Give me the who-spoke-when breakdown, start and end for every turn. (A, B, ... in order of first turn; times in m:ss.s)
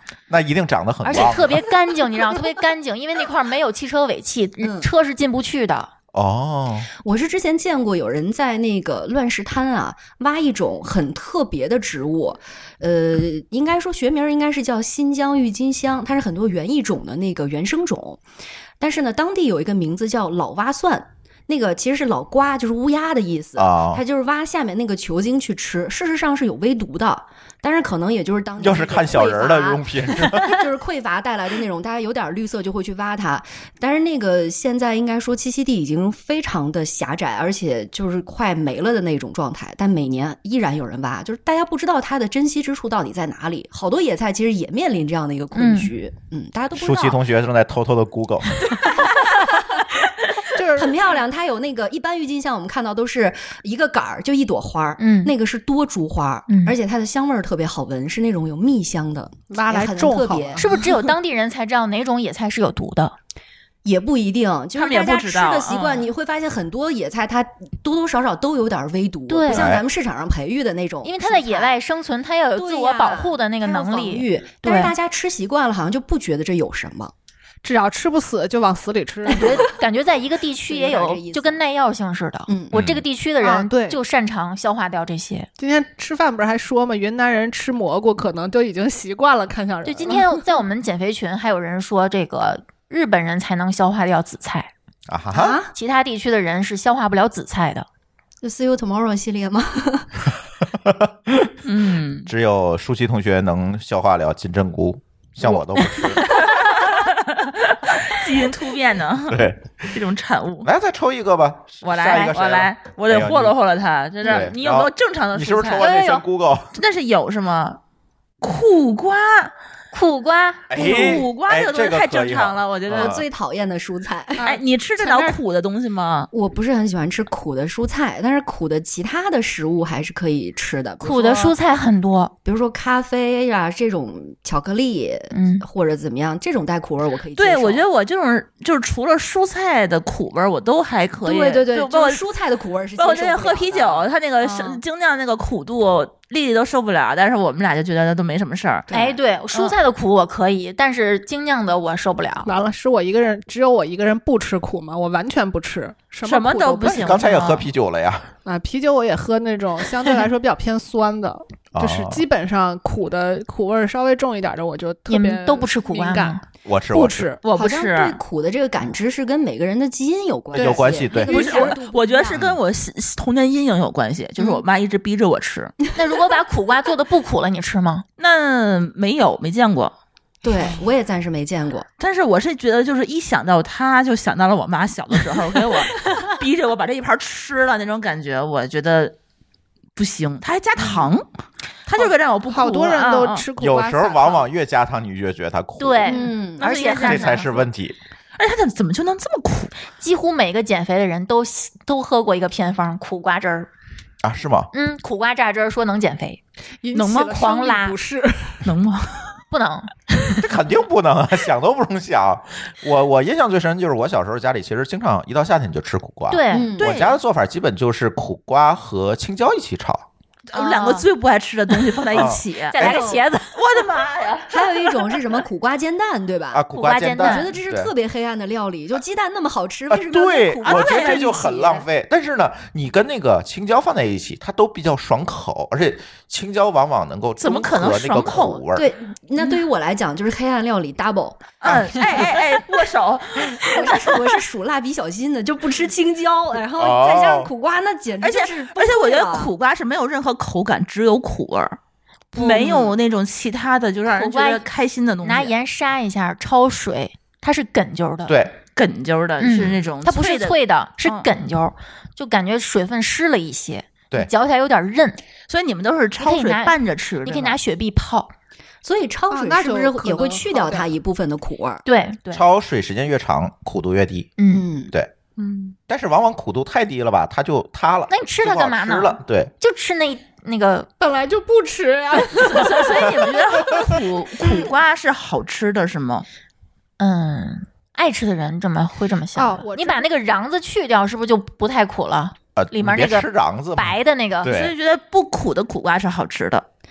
0:00.3-0:01.6 A
0:01.0-0:05.9 B
0:04.6-0:04.9 C
0:06.1-0:06.9 A
0:07.0-0:18.2 C
0:18.8-0:47.2 C
0:23.6-0:24.0 A
0:28.6-0:30.6 A
0:45.6-0:45.9 B
0:46.7-0:48.8 A
0:49.0-0:49.8 C
0:50.5-0:51.1 D
0:50.8-1:00.7 C
0:55.0-0:55.3 B
0:56.5-0:56.8 B
0:59.5-1:01.1 D
1:00.6-1:03.2 B
1:03.8-1:11.8 C
1:04.8-1:06.1 E
1:09.3-1:09.7 B
1:09.5-1:09.8 A
1:11.0-1:14.9 B
1:12.6-1:17.1 C
1:17.6-1:19.7 D
1:19.3-1:25.5 B
1:19.3-1:19.7 C
1:20.7-1:21.6 C
1:22.5-1:22.8 C
1:22.7-1:23.0 A
1:23.4-1:24.0 D
1:25.6-1:30.4 D
1:29.8-1:34.7 B
1:35.1-1:35.6 A
1:35.3-1:35.7 C
1:35.7-1:37.9 B
1:38.4-1:40.1 C
1:40.8-1:41.6 A
1:41.6-1:42.3 E
1:42.2-1:46.4 A
1:46.3-1:50.7 E
1:49.3-1:50.0 A
1:50.6-1:53.6 A
1:51.8-1:55.9 E
1:54.2-1:56.8 A
1:55.8-1:56.2 B
1:56.7-1:57.8 E
1:58.4-1:59.5 E
1:59.9-2:01.0 B
2:00.7-2:03.2 A
2:00.8-2:03.2 E
2:02.9-2:04.4 C
2:04.4-2:05.4 D
2:04.4-2:06.3 E
2:06.3-2:11.5 C
2:11.0-2:12.3 B
2:12.4-2:17.8 C
2:15.3-2:15.6 B
2:17.4-2:22.2 E
2:21.2-2:24.8 C
2:23.0-2:28.9 E
2:28.9-2:29.2 C
2:28.9-2:32.5 B
2:32.4-2:37.2 D
2:36.2-2:37.7 E
2:36.9-2:38.3 A
2:38.4-2:46.4 D
2:41.7-2:42.3 A
2:45.1-2:46.4 B
2:46.6-2:47.3 A
2:46.9-2:47.4 D
2:47.4-2:48.2 E
2:47.6-2:52.4 C
2:50.6-2:51.5 A
2:50.6-2:51.8 D
2:51.1-2:55.8 E
2:54.4-2:54.6 C
2:56.0-2:58.0 B
2:58.2-2:59.9 E
3:00.4-3:01.9 C
3:00.6-3:00.8 E
3:02.0-3:09.2 E
3:10.0-3:11.3 E
3:11.9-3:13.4 E
3:12.0-3:14.5 D
3:13.6-3:16.3 A
3:15.8-3:17.5 B
3:16.0-3:16.7 C
3:16.6-3:17.6 E
3:16.9-3:18.0 A
3:18.4-3:19.8 E
3:19.9-3:23.7 B
3:24.2-3:24.7 A
3:24.7-3:26.4 B
3:26.8-3:28.7 D
3:26.9-3:27.4 E
3:27.3-3:28.0 B
3:28.6-3:29.4 E
3:29.5-3:29.9 B
3:30.4-3:40.0 A
3:36.3-3:36.8 B
3:36.5-3:36.9 C
3:36.6-3:37.2 E
3:40.5-3:45.2 E
3:40.5-3:41.1 B
3:42.1-3:43.0 A
3:42.7-3:43.6 B
3:42.8-3:43.2 C
3:44.5-3:46.6 C
3:46.5-3:47.9 A
3:46.7-3:47.5 B
3:47.2-3:51.9 C
3:49.9-3:58.9 A
3:50.6-3:51.5 E
3:57.4-3:58.6 E
3:58.8-4:01.6 C
4:01.6-4:04.4 E
4:01.7-4:02.0 A
4:03.6-4:09.5 C
4:06.8-4:07.5 A
4:08.2-4:11.8 E
4:12.4-4:15.5 E
4:12.4-4:12.8 B
4:12.4-4:12.9 C
4:14.1-4:14.6 B
4:15.2-4:18.4 B
4:18.3-4:18.6 A
4:18.8-4:21.3 E
4:19.4-4:25.2 B
4:25.5-4:27.6 E
4:26.2-4:28.3 B
4:28.8-4:31.8 C
4:29.3-4:30.9 D
4:31.8-4:32.5 B
4:32.3-4:34.3 A
4:34.4-4:34.7 B
4:34.5-4:34.9 C
4:35.4-4:35.7 E
4:35.9-4:39.5 A
4:38.1-4:40.9 B
4:41.0-4:43.5 D
4:42.3-4:46.3 E
4:47.0-4:54.5 B
4:49.4-4:50.1 D
4:52.6-4:54.7 A
4:54.4-4:56.6 E